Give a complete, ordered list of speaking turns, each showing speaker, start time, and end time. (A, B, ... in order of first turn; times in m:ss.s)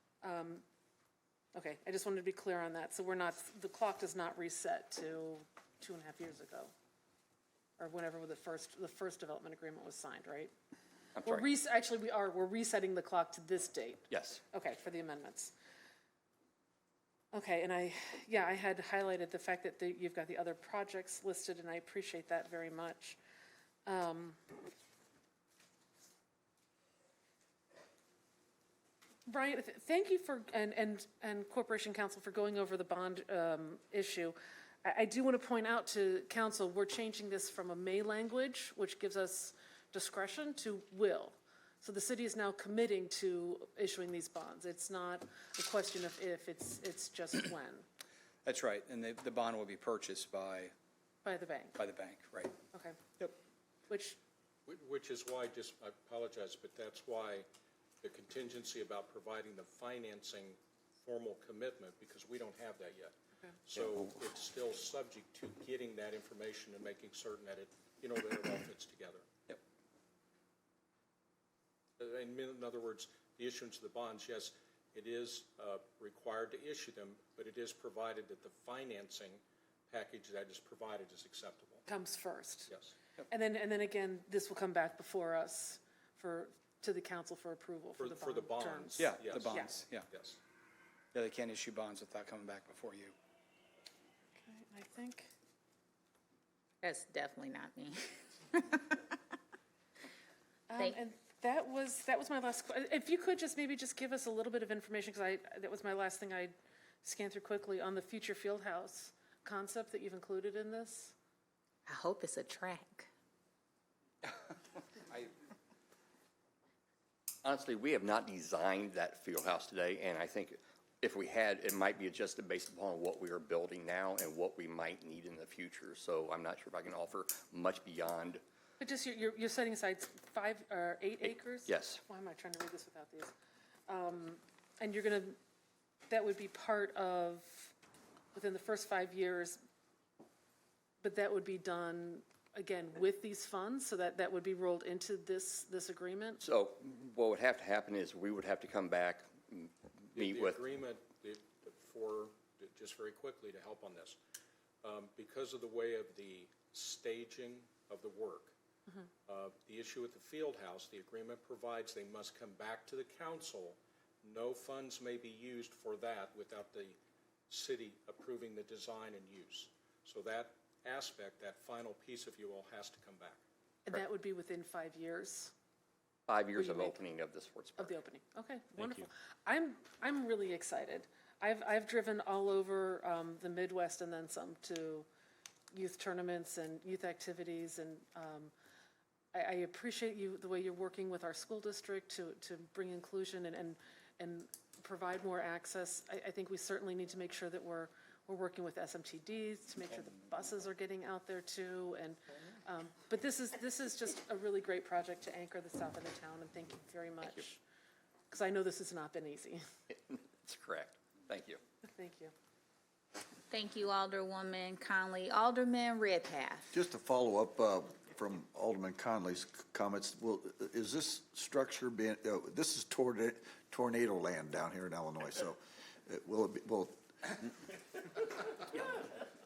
0:00.2-0:00.6 A
0:01.5-0:06.7 A
0:07.8-0:10.5 A
0:11.2-0:11.4 B
0:11.2-0:15.5 A
0:14.1-0:14.4 B
0:17.3-0:23.2 A
0:23.8-0:24.4 A
0:29.3-0:47.8 A
0:48.4-0:50.7 C
0:51.2-0:51.8 A
0:51.8-0:52.5 C
0:52.7-0:53.0 A
0:53.9-0:54.2 A
0:54.7-0:57.5 D
0:58.0-1:03.1 D
1:03.6-1:09.3 D
1:12.0-1:21.8 D
1:21.8-1:22.7 A
1:22.7-1:22.9 D
1:23.3-1:29.7 A
1:28.0-1:30.4 D
1:29.0-1:30.1 C
1:31.1-1:33.1 C
1:34.4-1:35.3 A
1:36.8-1:39.1 E
1:40.7-1:51.1 A
1:51.9-1:53.1 E
1:57.4-2:08.4 B
2:08.8-2:13.3 A
2:11.6-2:12.0 B
2:13.9-2:15.4 A
2:16.1-2:17.7 A
2:18.3-2:19.6 A
2:21.0-2:26.4 A
2:26.4-2:30.6 B
2:30.1-2:34.2 D
2:34.8-2:38.5 D
2:39.3-2:47.0 D
2:47.5-2:53.4 D
2:53.8-2:55.5 A
2:56.3-2:57.9 B
2:56.6-2:56.9 A
2:57.8-3:05.0 A
3:05.7-3:08.5 A
3:09.3-3:27.6 A
3:28.3-3:29.6 A
3:29.9-3:31.6 B
3:31.8-3:32.3 A
3:33.5-3:36.7 E
3:36.7-3:47.5 F
3:48.7-3:49.0 B